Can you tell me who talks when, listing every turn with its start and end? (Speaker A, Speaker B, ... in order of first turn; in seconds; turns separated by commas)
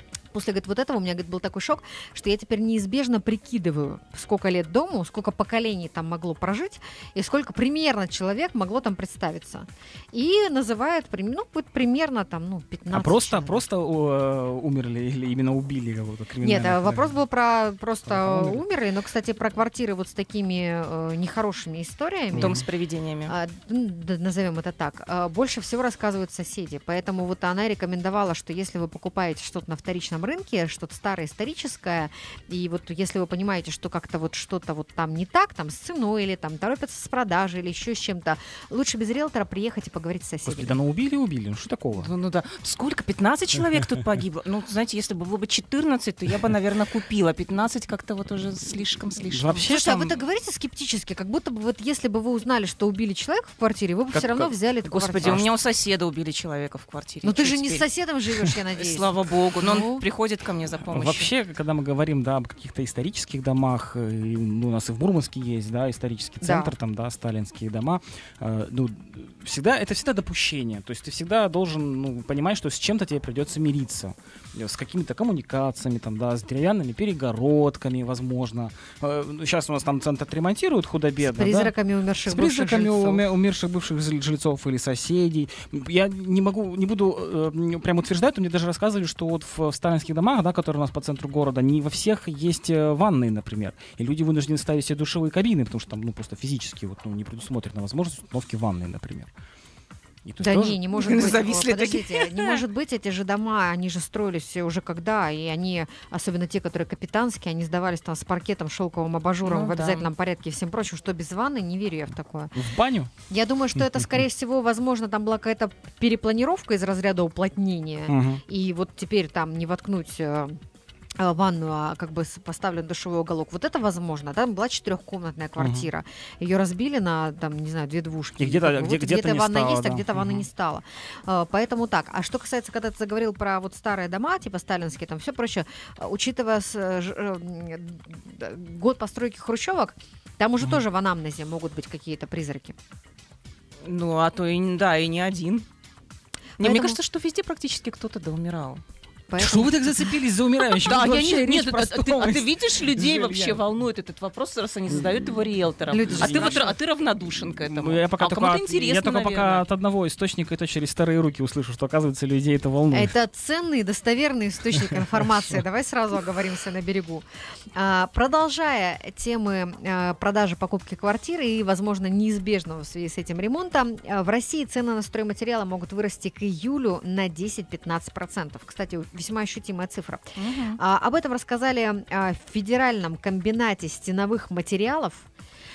Speaker A: 0.3-13.6, Speaker B: 12.9-17.2, Speaker A: 16.4-22.6, Speaker B: 18.1-18.6, Speaker B: 22.3-22.6, Speaker C: 22.3-23.3, Speaker A: 23.3-40.7, Speaker B: 40.5-42.1, Speaker C: 41.9-49.6, Speaker B: 49.3-50.2, Speaker A: 49.6-55.4, Speaker B: 54.1-54.5, Speaker C: 54.9-57.9, Speaker B: 55.2-55.5, Speaker A: 57.2-60.0, Speaker C: 58.7-61.3, Speaker B: 60.9-81.7, Speaker A: 66.4-66.7, Speaker A: 81.2-83.2, Speaker B: 82.3-99.3, Speaker B: 100.2-101.3, Speaker A: 100.4-112.5, Speaker C: 100.6-102.6, Speaker C: 109.4-110.1, Speaker B: 112.5-113.1, Speaker A: 113.3-120.6, Speaker B: 113.8-114.0, Speaker B: 118.1-118.4, Speaker A: 121.2-142.8, Speaker B: 125.6-125.9, Speaker B: 128.4-130.4, Speaker C: 143.8-145.7, Speaker C: 146.6-148.8, Speaker A: 146.6-147.0, Speaker A: 149.3-150.1, Speaker B: 149.4-153.6, Speaker C: 150.7-159.7, Speaker B: 154.9-155.1, Speaker A: 155.9-156.8, Speaker B: 156.1-156.7, Speaker B: 157.6-163.1, Speaker A: 162.9-185.3, Speaker C: 180.4-180.8